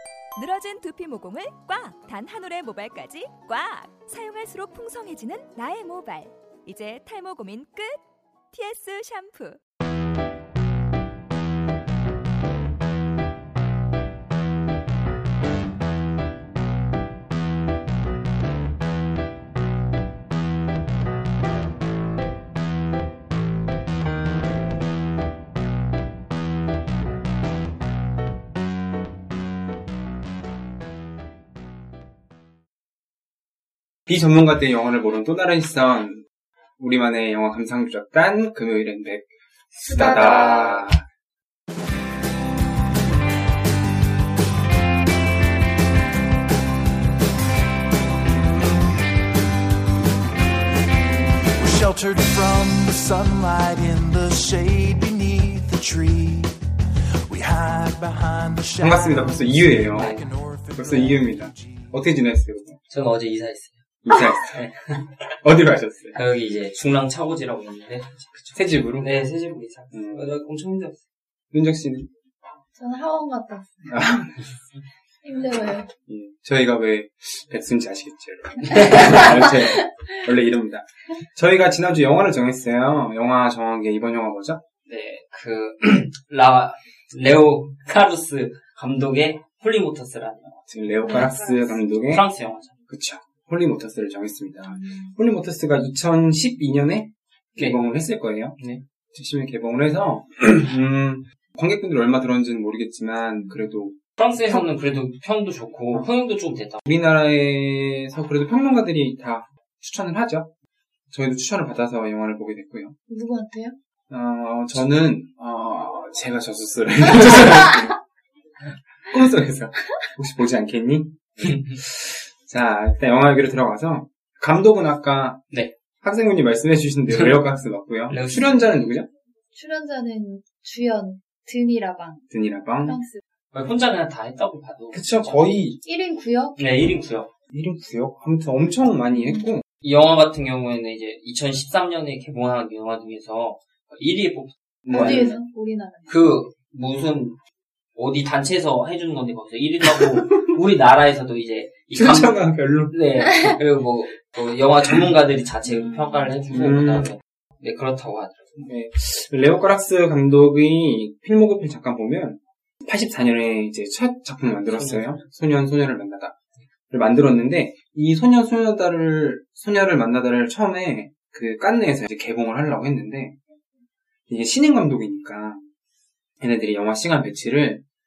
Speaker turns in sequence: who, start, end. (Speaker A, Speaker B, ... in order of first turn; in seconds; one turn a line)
Speaker A: 0.4-9.6
Speaker B: 34.1-36.2
Speaker B: 36.8-41.0
Speaker C: 39.8-40.9
Speaker D: 51.6-56.6
Speaker D: 57.3-61.9
Speaker B: 58.8-60.2
Speaker E: 59.9-60.2
Speaker B: 60.8-62.8
Speaker E: 62.9-63.8
Speaker B: 64.0-64.6
Speaker E: 64.5-65.1
Speaker B: 65.4-66.2
Speaker E: 66.1-71.0
Speaker B: 68.5-69.1
Speaker B: 69.9-70.3
Speaker B: 71.5-72.1
Speaker C: 72.8-74.0
Speaker B: 73.9-74.5
Speaker C: 75.2-75.9
Speaker B: 76.1-84.6
Speaker E: 78.7-79.2
Speaker C: 78.9-79.8
Speaker E: 84.9-91.3
Speaker B: 90.7-92.3
Speaker C: 91.0-91.8
Speaker E: 92.1-92.7
Speaker B: 92.9-98.6
Speaker C: 94.7-95.1
Speaker B: 99.1-104.0
Speaker E: 104.2-106.9
Speaker B: 106.9-110.5
Speaker B: 111.1-113.0
Speaker C: 113.1-113.8
Speaker B: 114.1-118.0
Speaker B: 119.0-129.1
Speaker E: 121.4-121.8
Speaker E: 127.1-127.4
Speaker E: 128.1-128.9
Speaker C: 129.5-132.3
Speaker B: 132.3-133.0
Speaker C: 132.8-133.2
Speaker E: 133.5-135.6
Speaker B: 134.9-135.8
Speaker C: 135.8-136.6
Speaker E: 136.6-137.3
Speaker B: 137.5-139.6
Speaker C: 139.1-139.5
Speaker E: 139.8-145.3
Speaker B: 144.8-145.4
Speaker C: 144.9-146.2
Speaker E: 146.1-147.4
Speaker E: 148.0-158.4
Speaker B: 151.9-153.0
Speaker C: 155.7-156.3
Speaker B: 156.5-157.1
Speaker B: 158.6-166.4
Speaker E: 164.7-165.3
Speaker B: 166.9-173.4
Speaker B: 174.3-175.6
Speaker B: 176.4-177.8